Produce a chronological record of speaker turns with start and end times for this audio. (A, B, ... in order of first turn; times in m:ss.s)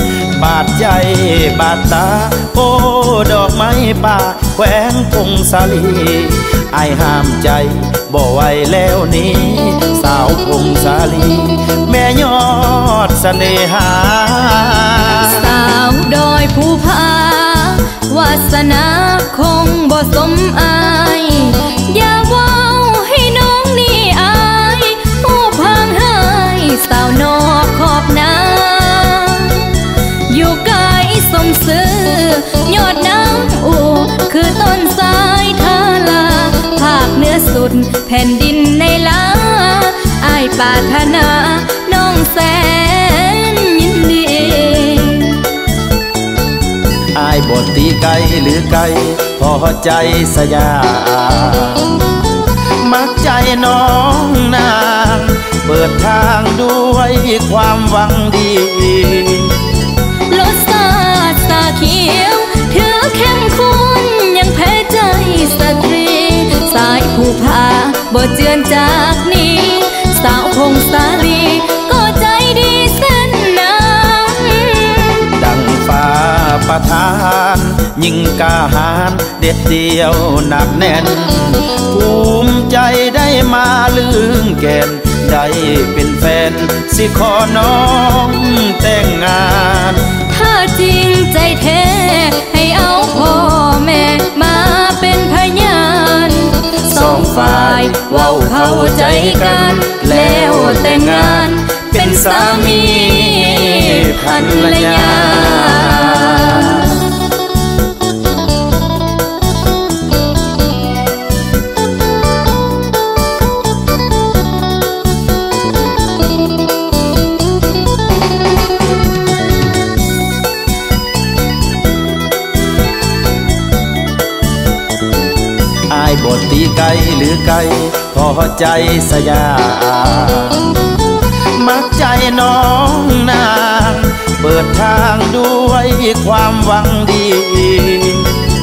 0:00.3-0:15.4 A
0:15.2-0:45.5 B
0:47.2-0:52.2 A
0:52.8-0:59.6 A
1:00.3-1:15.3 B
1:15.3-1:30.1 A
1:30.3-1:46.9 B
1:36.9-1:47.1 A
2:05.9-2:11.0 A
2:11.6-2:18.4 A